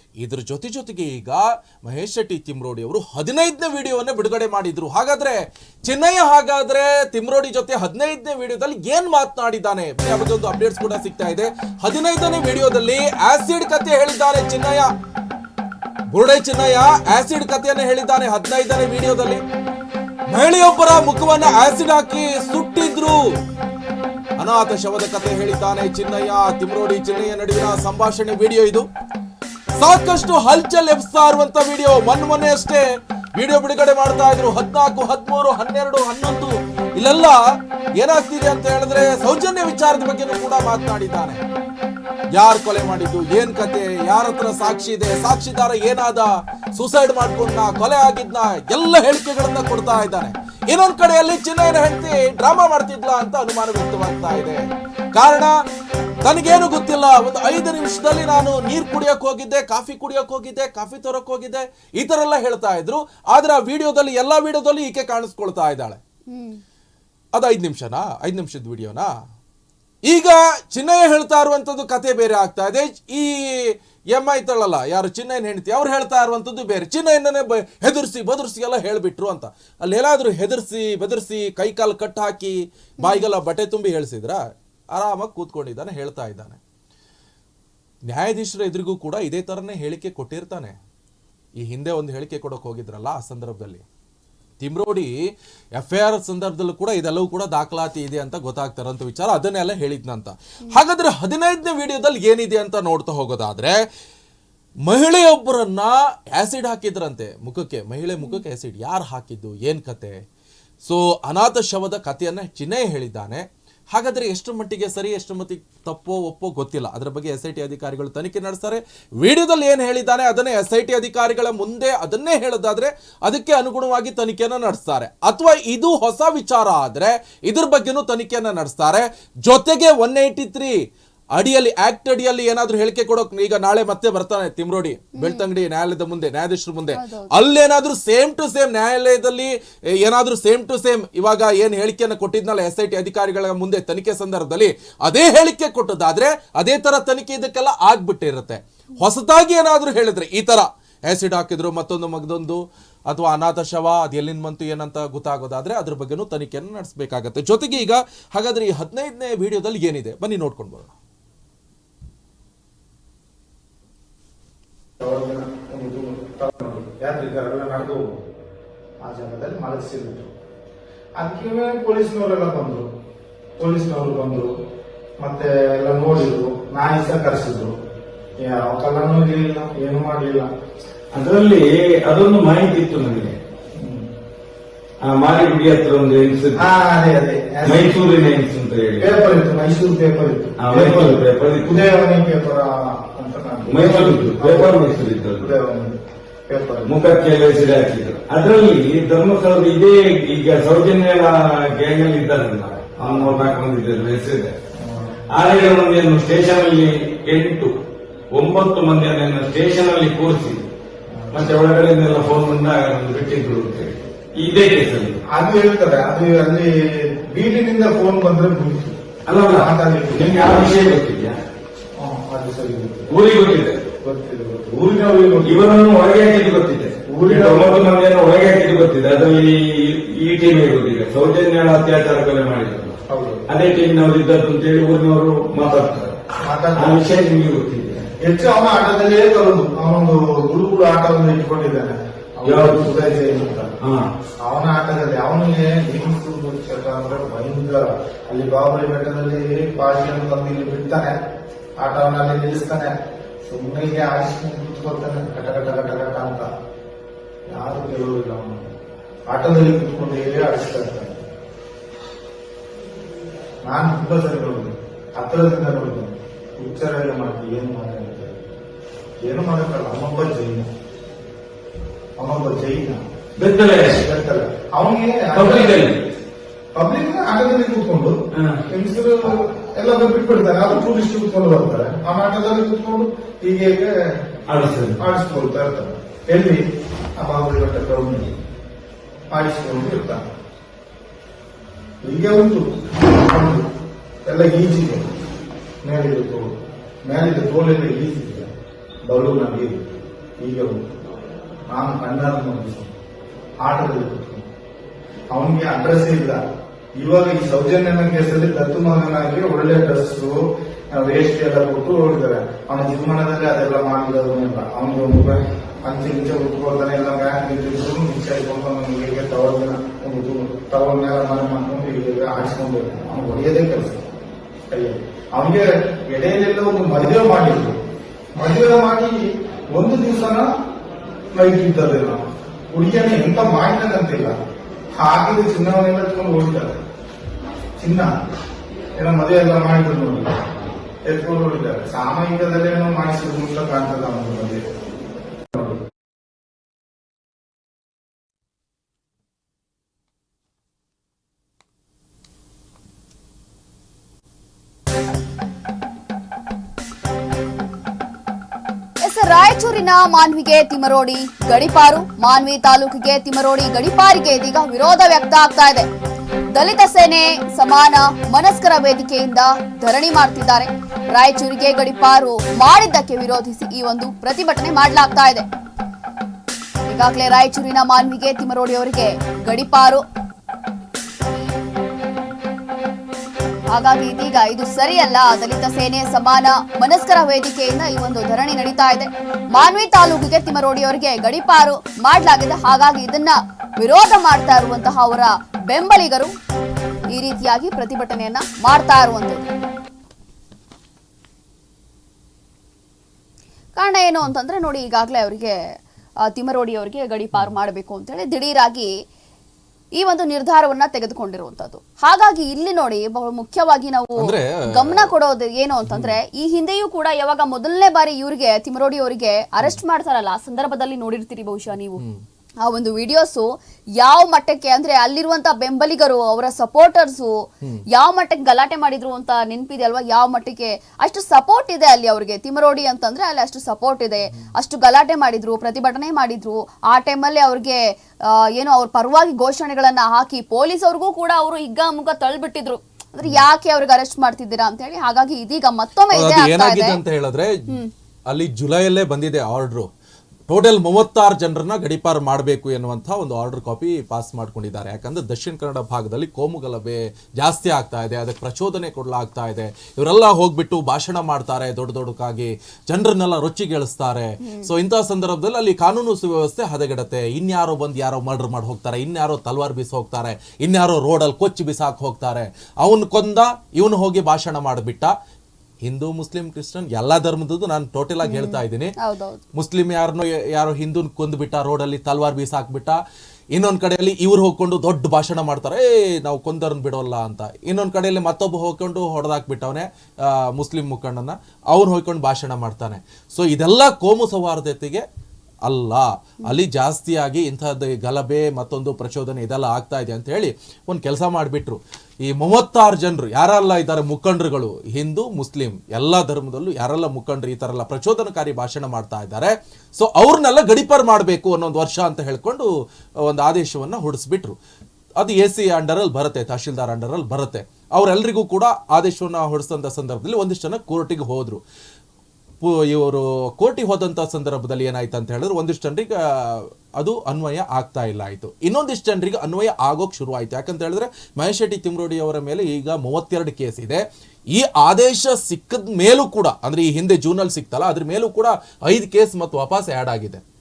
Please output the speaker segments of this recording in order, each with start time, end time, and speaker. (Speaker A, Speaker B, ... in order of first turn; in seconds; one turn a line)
Speaker A: 0.2-14.9
Speaker A: 16.1-19.4
Speaker A: 20.3-23.2
Speaker A: 24.4-28.9
Speaker A: 29.8-37.4
Speaker A: 38.0-41.4
Speaker A: 42.3-55.5
Speaker A: 56.2-66.0
Speaker B: 66.3-66.6
Speaker A: 67.3-69.1
Speaker A: 70.0-84.4
Speaker B: 83.0-83.3
Speaker A: 84.9-86.6
Speaker A: 88.0-90.8
Speaker A: 91.6-93.8
Speaker A: 94.6-95.1
Speaker A: 95.8-103.8
Speaker A: 104.8-110.2
Speaker A: 110.8-130.8
Speaker A: 131.3-160.9
Speaker B: 135.2-135.4
Speaker B: 136.9-137.3
Speaker C: 165.0-168.2
Speaker C: 169.0-170.3
Speaker C: 171.2-172.9
Speaker C: 173.6-174.5
Speaker C: 175.2-177.7
Speaker C: 178.4-180.5
Speaker D: 181.1-183.3
Speaker C: 183.8-184.1
Speaker D: 185.0-186.6
Speaker C: 186.6-188.0
Speaker D: 187.6-189.2
Speaker C: 189.0-195.9
Speaker D: 190.6-191.9
Speaker D: 193.6-195.5
Speaker C: 196.5-196.9
Speaker D: 196.8-204.5
Speaker C: 203.0-203.4
Speaker C: 204.8-205.2
Speaker D: 205.3-207.7
Speaker D: 208.3-210.7
Speaker C: 211.1-211.6
Speaker D: 211.3-215.2
Speaker C: 215.3-218.9
Speaker D: 219.3-221.4
Speaker C: 219.5-220.5
Speaker C: 222.0-223.1
Speaker D: 223.1-223.8
Speaker C: 224.0-225.8
Speaker D: 225.4-236.1
Speaker C: 227.1-227.8
Speaker C: 233.1-233.4
Speaker C: 236.4-237.0
Speaker D: 236.7-238.1
Speaker C: 238.2-243.8
Speaker D: 242.4-242.9
Speaker D: 243.8-244.1
Speaker C: 244.4-251.1
Speaker C: 251.8-252.9
Speaker C: 253.5-256.5
Speaker C: 257.5-258.7
Speaker C: 259.3-261.2
Speaker C: 263.6-268.5
Speaker C: 269.2-270.7
Speaker C: 272.2-273.0
Speaker D: 273.4-274.0
Speaker C: 273.9-275.9
Speaker D: 275.3-276.0
Speaker C: 276.7-278.1
Speaker D: 278.3-278.6
Speaker C: 278.7-283.9
Speaker D: 284.5-285.0
Speaker C: 285.0-286.6
Speaker C: 287.2-288.3
Speaker C: 289.3-290.2
Speaker C: 292.0-293.6
Speaker C: 294.2-295.1
Speaker C: 295.8-296.5
Speaker C: 297.1-298.5
Speaker C: 299.0-300.9
Speaker C: 301.7-302.9
Speaker C: 303.6-304.5
Speaker C: 305.3-306.4
Speaker C: 307.0-310.4
Speaker C: 310.9-324.1
Speaker C: 324.7-327.8
Speaker C: 328.3-330.5
Speaker C: 331.3-334.4
Speaker C: 334.9-336.8
Speaker C: 337.8-338.1
Speaker C: 338.9-340.5
Speaker C: 341.1-344.6
Speaker C: 345.5-345.8
Speaker B: 359.0-365.9
Speaker B: 366.5-375.4
Speaker B: 376.9-380.0
Speaker B: 383.7-396.3
Speaker B: 397.1-399.5
Speaker B: 403.8-405.6
Speaker B: 406.2-408.9
Speaker B: 409.9-422.0
Speaker A: 414.2-415.1
Speaker A: 415.9-416.1
Speaker B: 422.6-447.0
Speaker A: 446.1-447.8
Speaker A: 448.3-449.9
Speaker A: 450.5-475.1
Speaker B: 464.4-464.7
Speaker A: 475.8-478.9
Speaker B: 478.2-479.4
Speaker A: 479.5-483.0
Speaker A: 483.5-495.0
Speaker A: 495.6-512.7
Speaker A: 513.2-514.5
Speaker A: 515.2-521.6
Speaker A: 522.6-534.0
Speaker A: 534.5-540.4